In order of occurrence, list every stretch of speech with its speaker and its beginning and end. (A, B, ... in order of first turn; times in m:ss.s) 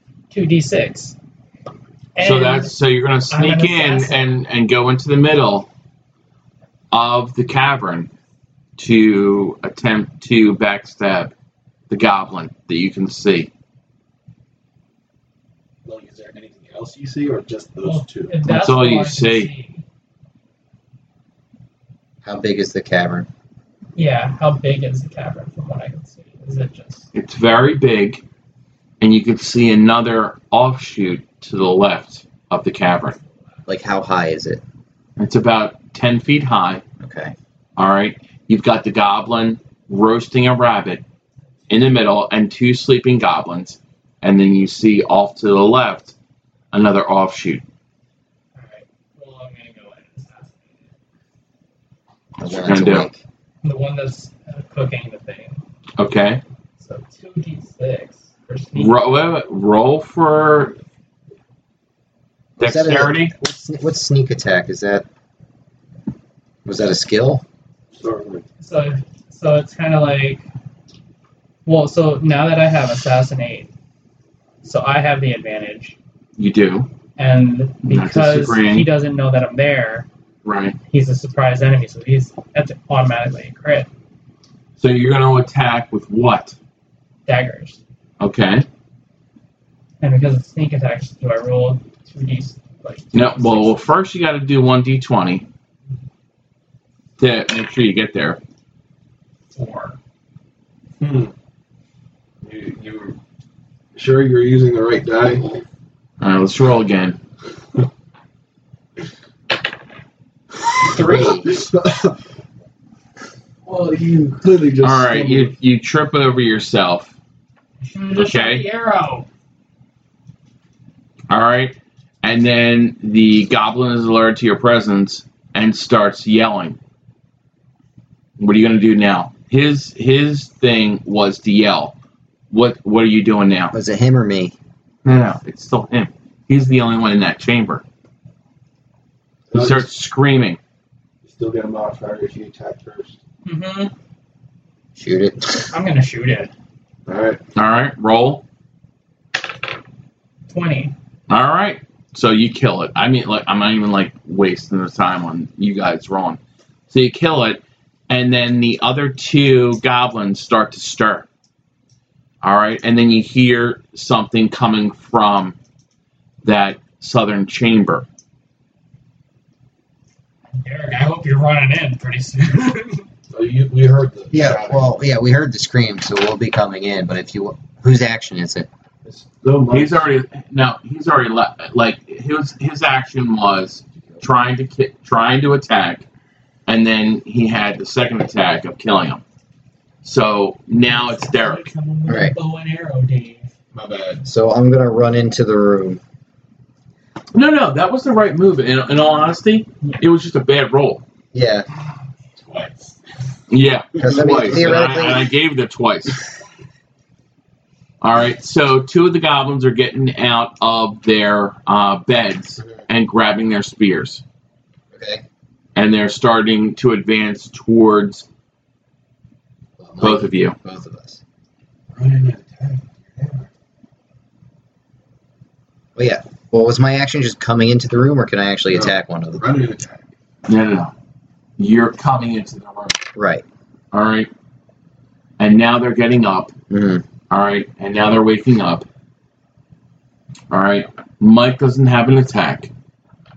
0:00.3-0:01.2 A
0:02.2-0:02.7 A
0:02.2-0:05.7 B
0:03.3-0:04.2 A
0:06.9-0:08.1 B
0:08.8-0:11.3 B
0:11.9-0:13.5 B
0:15.8-0:18.4 C
0:17.8-0:19.8 A
0:18.4-0:19.5 B
0:22.2-0:23.3 D
0:24.0-0:27.1 A
0:27.1-0:28.2 B
0:29.0-0:33.2 B
0:33.6-0:34.6 D
0:35.2-0:36.8 B
0:37.0-0:37.3 D
0:37.8-0:41.0 B
0:41.7-0:46.1 B
0:46.7-0:47.6 B
0:48.5-0:50.9 A
0:52.4-0:53.1 B
0:52.4-0:53.2 D
0:53.6-0:55.6 A
0:56.0-0:56.4 B
0:56.8-0:59.0 A
0:58.8-1:00.8 B
1:02.6-1:03.3 B
1:02.6-1:05.0 D
1:06.6-1:07.4 D
1:07.9-1:08.4 C
1:08.6-1:10.4 A
1:11.6-1:13.7 A
1:14.6-1:16.0 A
1:16.4-1:16.9 B
1:17.2-1:20.1 A
1:17.8-1:18.9 B
1:20.4-1:20.8 B
1:20.9-1:23.9 A
1:24.8-1:26.5 B
1:27.3-1:27.8 A
1:28.2-1:28.6 B
1:30.0-1:33.8 A
1:33.1-1:35.4 B
1:37.2-1:38.4 B
1:39.5-1:40.0 A
1:41.0-1:41.3 C
1:42.4-1:43.2 C
1:43.9-1:45.5 C
1:46.2-1:47.2 B
1:50.8-1:52.2 C
1:50.9-1:51.5 D
1:51.0-1:51.3 A
1:53.6-1:55.5 C
1:54.8-1:57.1 B
1:57.8-1:59.3 A
1:58.1-1:58.6 B
2:01.3-2:06.8 B
2:08.4-2:12.0 B
2:12.5-2:13.7 B
2:13.7-2:14.5 D
2:15.0-2:17.8 B
2:19.5-2:19.9 C
2:19.5-2:20.6 B
2:21.2-2:23.2 C
2:23.4-2:23.9 A
2:25.0-2:25.7 D
2:25.7-2:26.5 A
2:27.0-2:27.4 C
2:27.5-2:28.4 B
2:30.5-2:30.9 A
2:31.3-2:41.3 B
2:42.4-2:45.6 B
2:46.4-2:48.0 B
2:50.5-2:53.1 A
2:53.3-2:54.9 C
2:54.3-2:58.7 D
2:59.0-3:00.1 C
2:59.7-3:06.0 B
3:06.6-3:09.2 B
3:10.0-3:11.7 B
3:10.9-3:13.5 A
3:12.1-3:12.3 D
3:13.7-3:14.2 C
3:14.2-3:16.0 D
3:17.3-3:21.0 B
3:21.3-3:21.7 D
3:22.4-3:23.0 C
3:23.5-3:26.2 B
3:24.0-3:24.8 C
3:24.0-3:25.3 D
3:28.0-3:34.2 B
3:34.9-3:35.2 D
3:35.7-3:38.2 B
3:39.8-3:41.2 D
3:40.0-3:40.6 B
3:41.9-3:43.5 C
3:46.0-3:49.4 D
3:48.7-3:50.1 C
3:50.5-3:50.9 B
3:51.6-3:53.0 B
3:53.1-3:53.4 D
3:53.9-3:54.3 B
3:55.4-3:56.5 B
3:56.7-3:57.0 D
3:57.3-3:58.9 B
4:00.5-4:02.7 B